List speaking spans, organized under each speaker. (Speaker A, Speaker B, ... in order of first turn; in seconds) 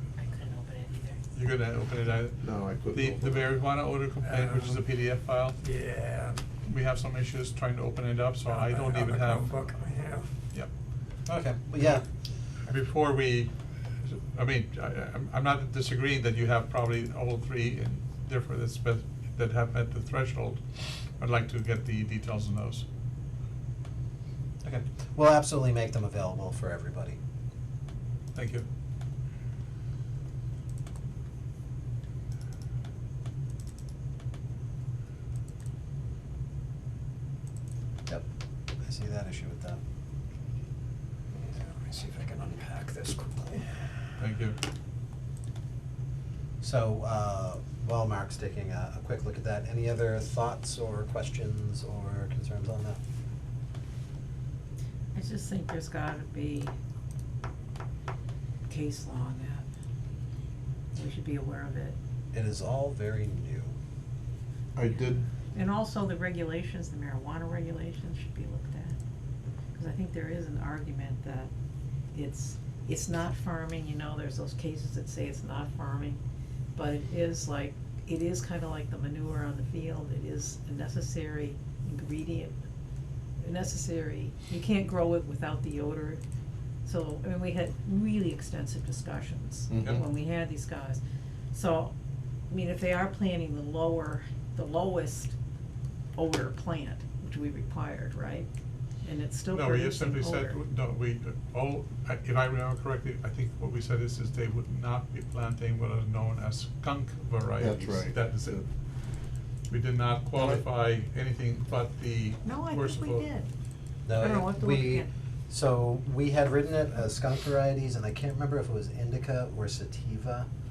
Speaker A: 0.2-1.2, 55.1-56.7, 58.7-59.6, 60.9-62.0, 65.4-69.0, 69.7-71.5, 72.1-76.2, 76.7-82.5, 83.4-86.2, 86.8-91.0, 91.5-91.9, 92.5-95.3, 96.1-98.5, 99.0-100.6, 112.4-113.5, 114.1-115.1
Speaker B: 1.3-5.6, 6.7-9.7, 12.7-22.8, 28.3-28.7, 44.2-44.6, 99.5-108.6, 109.7-113.3
Speaker C: 2.4-3.5, 64.8-65.2, 89.7-90.0, 107.6-108.6, 110.3-110.6
Speaker D: 4.2-4.8, 5.6-6.4, 8.4-10.3, 41.3-43.8
Speaker E: 11.2-12.0, 24.6-27.2, 38.8-39.8, 46.6-53.0, 62.3-63.7, 114.0-120.5